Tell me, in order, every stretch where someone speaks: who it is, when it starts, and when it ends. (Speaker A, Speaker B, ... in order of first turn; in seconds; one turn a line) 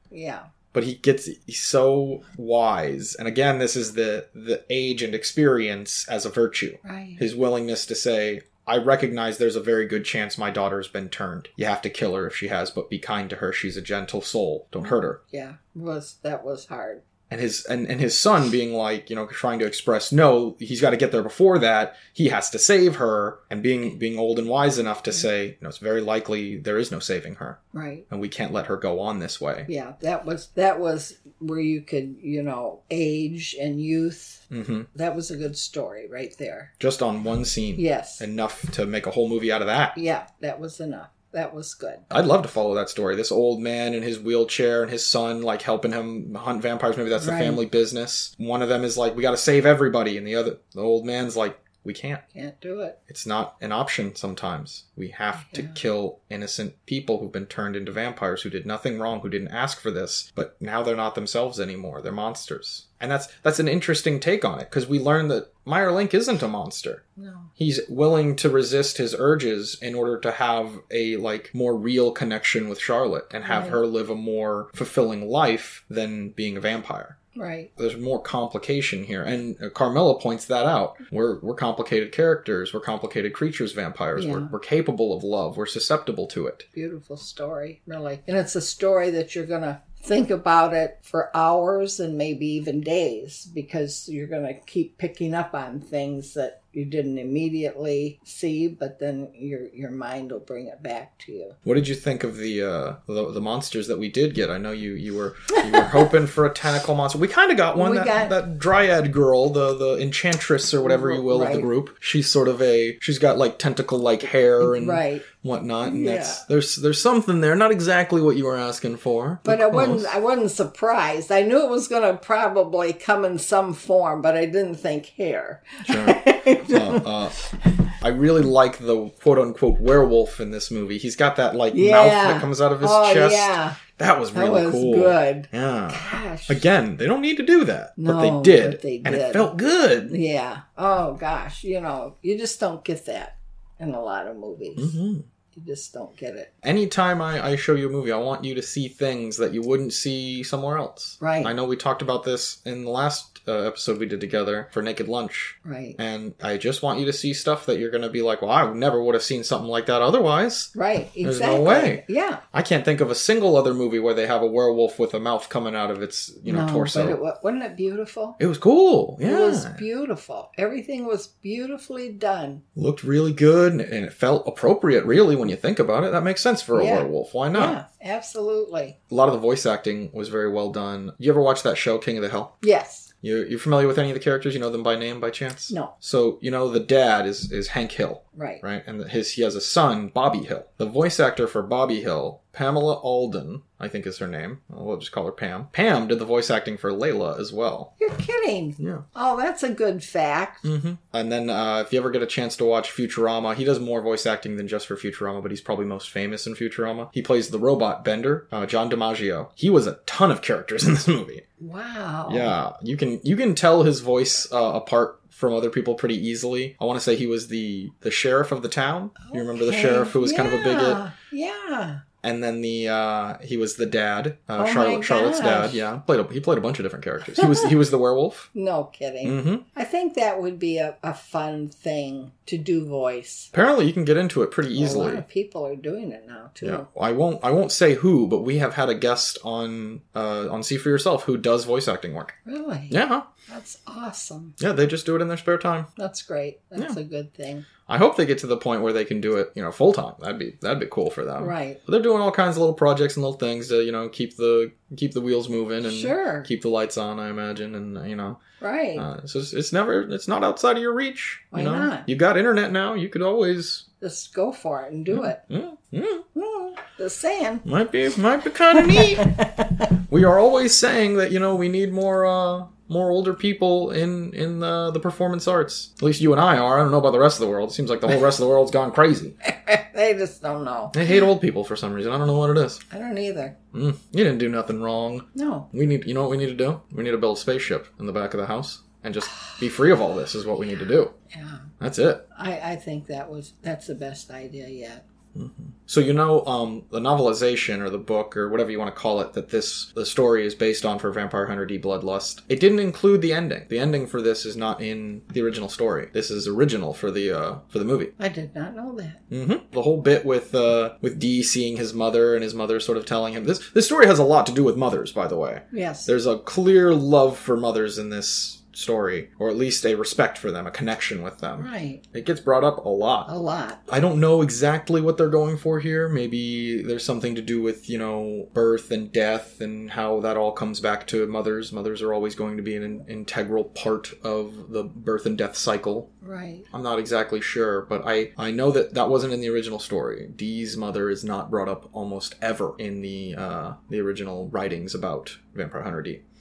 Speaker A: 0.1-0.5
Speaker B: 0.7-15.2
Speaker A: 6.8-7.3
Speaker A: 15.3-17.0
Speaker B: 17.3-29.7
Speaker A: 27.7-28.1
Speaker A: 29.7-36.7
Speaker B: 34.5-34.9
Speaker B: 36.8-40.0
Speaker A: 37.8-38.2
Speaker A: 40.0-42.0
Speaker B: 42.1-52.2
Speaker A: 47.2-47.6
Speaker A: 52.3-53.0
Speaker B: 53.1-67.0
Speaker A: 55.4-55.8
Speaker A: 67.2-67.5
Speaker B: 67.6-77.2
Speaker A: 73.5-73.8
Speaker A: 77.3-77.7
Speaker B: 77.8-86.7
Speaker A: 84.2-84.5
Speaker A: 86.7-101.6
Speaker B: 101.7-120.1
Speaker A: 105.5-106.1
Speaker A: 107.8-108.3
Speaker A: 110.8-111.7
Speaker A: 114.6-115.3
Speaker A: 115.8-116.4
Speaker A: 119.5-127.1
Speaker B: 125.8-127.4
Speaker B: 128.0-140.2
Speaker A: 131.7-133.8
Speaker A: 134.3-136.7
Speaker A: 138.0-139.5
Speaker A: 140.1-145.0
Speaker B: 144.8-145.3
Speaker A: 145.5-146.5
Speaker B: 146.6-160.7
Speaker A: 151.2-151.5
Speaker A: 155.6-156.0
Speaker A: 160.7-162.4
Speaker B: 161.2-167.2
Speaker A: 166.5-168.4
Speaker B: 168.4-169.8
Speaker A: 169.2-172.6
Speaker B: 172.8-177.8
Speaker A: 176.7-179.0
Speaker B: 179.1-182.5
Speaker A: 182.6-183.1
Speaker B: 183.2-197.9
Speaker A: 188.3-188.6
Speaker A: 198.0-200.7
Speaker B: 198.8-199.1
Speaker B: 200.6-211.4
Speaker A: 211.6-212.5
Speaker B: 212.3-221.0
Speaker A: 219.2-222.0
Speaker B: 222.2-228.5
Speaker A: 224.6-225.9
Speaker A: 227.4-227.7
Speaker A: 228.5-233.5
Speaker B: 229.2-229.6
Speaker B: 233.5-235.2
Speaker A: 234.7-236.9
Speaker B: 236.6-242.3
Speaker A: 242.4-244.6
Speaker B: 242.9-243.3
Speaker B: 244.6-245.9
Speaker A: 246.0-247.7
Speaker B: 247.9-258.4
Speaker A: 251.4-251.8
Speaker A: 255.8-256.5
Speaker A: 258.6-259.1
Speaker B: 259.0-263.9
Speaker A: 261.5-262.1
Speaker A: 264.0-265.4
Speaker B: 265.1-266.2
Speaker A: 266.4-267.7
Speaker B: 267.6-279.4
Speaker A: 268.7-269.9
Speaker A: 279.4-281.2
Speaker B: 280.9-282.8
Speaker A: 282.9-283.6
Speaker B: 283.7-291.1
Speaker A: 285.3-285.7
Speaker A: 291.3-291.7
Speaker B: 291.8-292.3
Speaker A: 292.3-295.0
Speaker B: 295.4-308.1
Speaker A: 308.2-309.2
Speaker B: 309.3-323.3
Speaker A: 315.7-316.1
Speaker A: 321.6-322.0
Speaker A: 323.3-323.8
Speaker B: 323.9-336.1
Speaker A: 336.2-336.7
Speaker B: 336.7-346.2